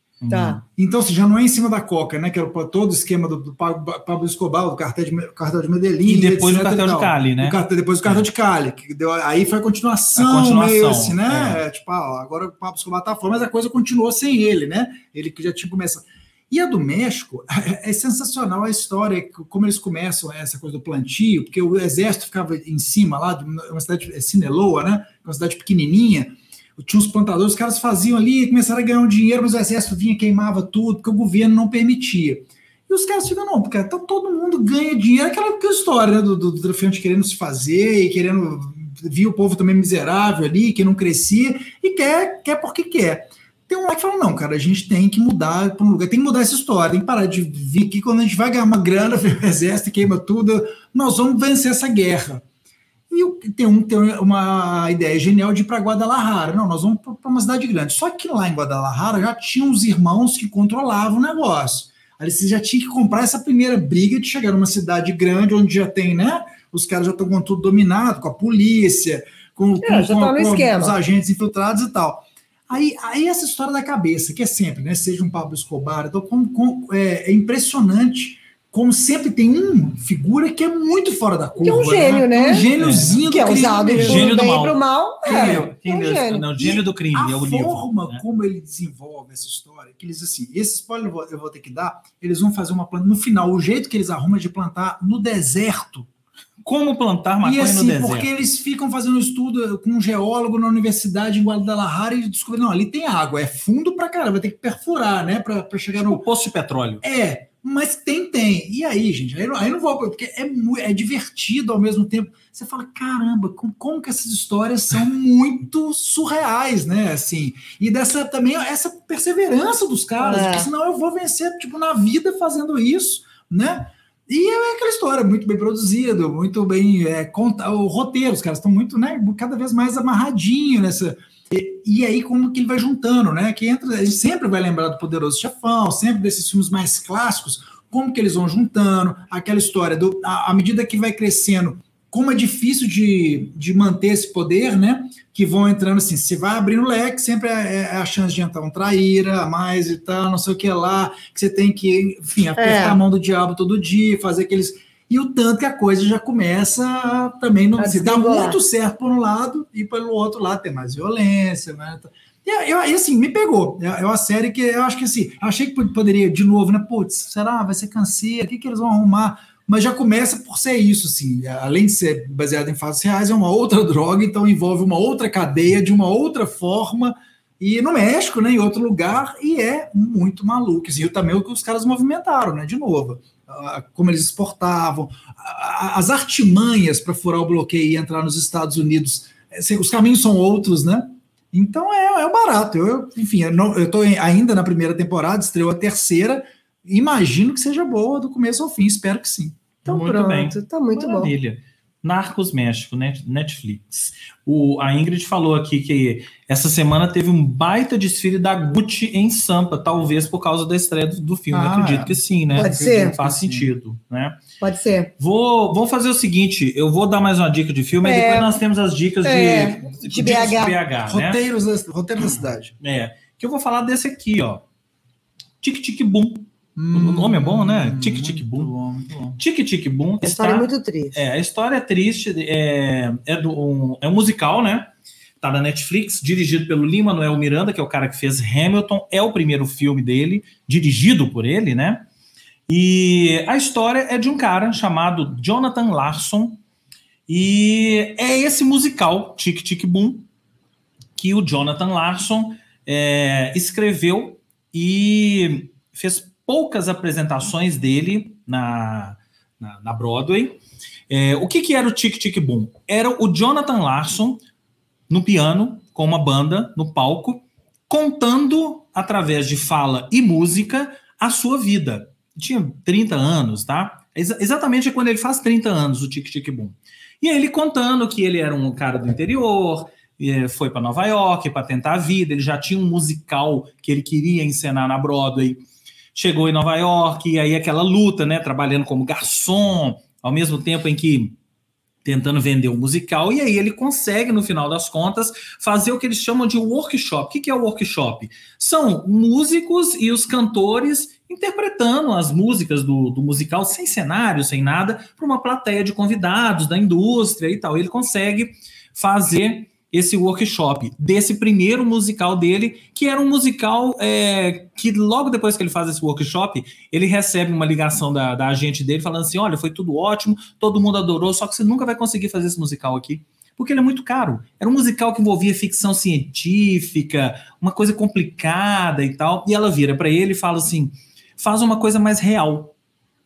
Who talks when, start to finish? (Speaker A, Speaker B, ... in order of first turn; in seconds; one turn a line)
Speaker A: 0.2-0.6
Speaker B: 0.3-0.6
Speaker C: 0.8-52.4
Speaker A: 6.0-8.2
Speaker A: 10.2-11.6
Speaker C: 53.1-84.4
Speaker B: 69.8-71.0
Speaker B: 81.6-82.7
Speaker A: 82.8-83.2
Speaker B: 83.2-86.5
Speaker A: 83.9-88.2
Speaker C: 85.2-85.7
Speaker C: 86.6-96.1
Speaker A: 96.6-98.3
Speaker C: 97.4-106.2
Speaker A: 105.9-107.0
Speaker C: 107.0-199.6
Speaker B: 120.2-120.7
Speaker B: 152.6-153.0
Speaker B: 157.8-158.6
Speaker B: 199.8-201.3
Speaker A: 199.8-214.4
Speaker C: 211.5-213.7
Speaker B: 212.5-213.2
Speaker B: 214.6-215.1
Speaker A: 215.2-221.4
Speaker B: 218.0-218.6
Speaker B: 219.2-220.8
Speaker C: 221.0-222.7
Speaker A: 222.8-224.6
Speaker A: 225.6-228.7
Speaker C: 226.8-229.4
Speaker A: 229.4-234.9
Speaker B: 230.2-231.2
Speaker A: 235.4-242.1
Speaker A: 242.7-246.6
Speaker A: 247.3-250.3
Speaker A: 251.2-260.6
Speaker A: 261.1-264.4
Speaker A: 265.1-285.6
Speaker A: 286.1-291.4
Speaker A: 292.0-332.7